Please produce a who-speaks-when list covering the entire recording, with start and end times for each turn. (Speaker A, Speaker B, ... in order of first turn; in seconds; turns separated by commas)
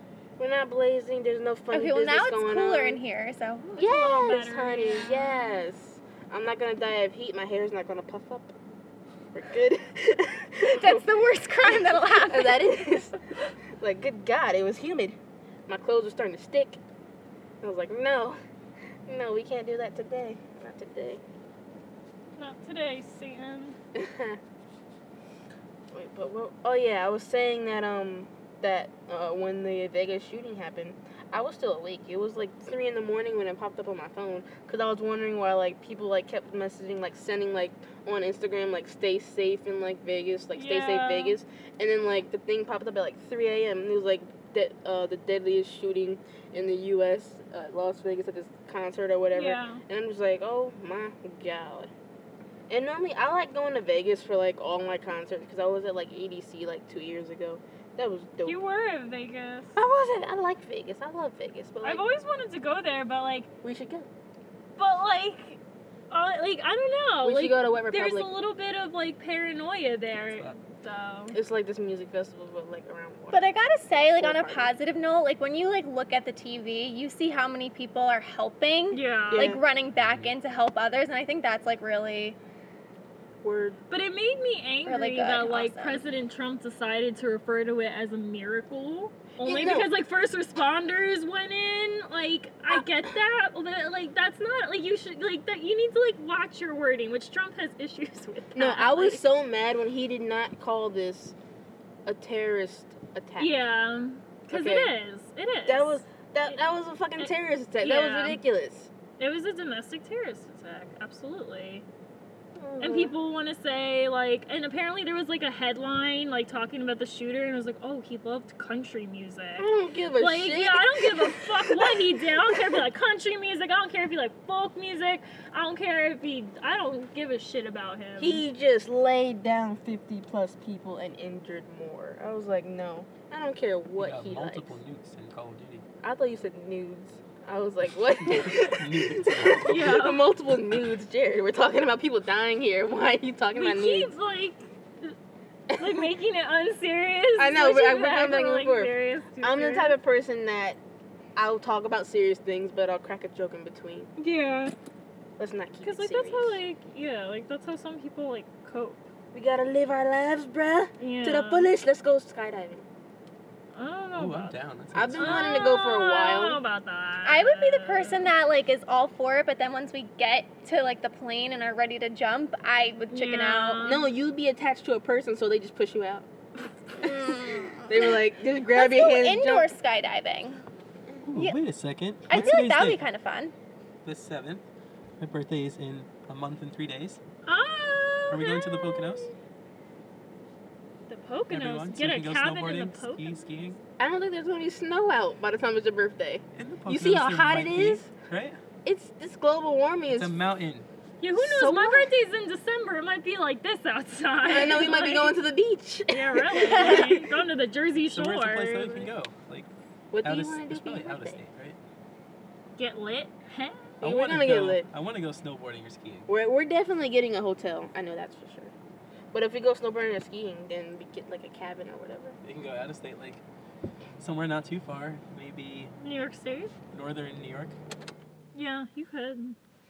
Speaker A: 0.4-3.0, Speaker B: 1.7-4.0, Speaker C: 3.8-5.6, Speaker A: 3.8-8.5, Speaker A: 9.3-11.0, Speaker B: 10.6-12.8, Speaker A: 11.6-13.2, Speaker A: 13.8-15.2, Speaker A: 15.7-16.8, Speaker A: 17.6-18.4, Speaker A: 19.1-21.2, Speaker C: 22.4-23.8, Speaker A: 23.9-24.4, Speaker A: 25.9-51.9, Speaker C: 40.5-41.4, Speaker C: 49.3-49.8, Speaker A: 52.7-58.6, Speaker C: 58.4-59.8, Speaker A: 59.8-62.0, Speaker C: 61.8-63.5, Speaker A: 63.6-64.1, Speaker C: 64.8-65.6, Speaker C: 66.1-71.3, Speaker A: 67.2-68.3, Speaker D: 70.2-70.6, Speaker A: 71.3-73.5, Speaker B: 73.3-82.4, Speaker A: 74.2-74.7, Speaker C: 78.9-79.6, Speaker A: 79.3-79.6, Speaker D: 79.9-80.3, Speaker A: 83.4-83.8, Speaker C: 83.9-99.2, Speaker B: 84.8-86.0, Speaker A: 89.4-89.9, Speaker A: 98.5-101.3, Speaker A: 102.0-103.6, Speaker C: 103.4-106.6, Speaker A: 104.5-104.9, Speaker A: 105.6-108.9, Speaker C: 107.2-108.4, Speaker C: 109.2-111.8, Speaker A: 112.5-113.1, Speaker C: 112.8-128.4, Speaker A: 119.6-122.6, Speaker A: 128.2-134.8, Speaker D: 134.0-135.8, Speaker A: 136.0-144.1, Speaker D: 138.2-139.9, Speaker C: 139.6-140.3, Speaker C: 143.5-145.2, Speaker A: 145.7-146.1, Speaker C: 145.8-149.9, Speaker A: 147.4-150.8, Speaker A: 151.3-154.1, Speaker C: 154.2-154.7, Speaker A: 155.4-156.6, Speaker C: 155.8-159.1, Speaker A: 159.3-162.8, Speaker C: 161.0-161.7, Speaker C: 163.7-164.6, Speaker D: 164.2-165.6, Speaker A: 164.9-166.6, Speaker C: 165.2-168.3, Speaker B: 167.2-173.8, Speaker C: 173.1-174.1, Speaker A: 173.8-176.3, Speaker A: 176.9-179.7, Speaker B: 177.0-180.6, Speaker D: 181.2-183.0, Speaker B: 182.3-183.5, Speaker D: 184.0-184.6, Speaker D: 185.2-187.2, Speaker C: 187.4-189.3, Speaker D: 188.3-189.3, Speaker C: 191.1-193.4, Speaker D: 191.5-193.8, Speaker A: 194.0-198.1, Speaker D: 196.5-198.6, Speaker A: 198.8-200.3, Speaker D: 200.1-200.9, Speaker C: 201.2-205.3, Speaker A: 201.3-202.1, Speaker A: 204.4-207.2, Speaker C: 206.1-209.1, Speaker B: 206.7-207.1, Speaker D: 208.1-209.7, Speaker A: 210.1-211.4, Speaker D: 210.2-211.8, Speaker C: 212.8-214.0, Speaker A: 214.0-214.8, Speaker D: 214.0-216.3, Speaker A: 216.3-218.7, Speaker A: 219.3-222.4, Speaker D: 222.4-223.4, Speaker D: 224.2-225.9, Speaker C: 226.0-226.7, Speaker D: 226.9-227.8, Speaker C: 228.5-229.6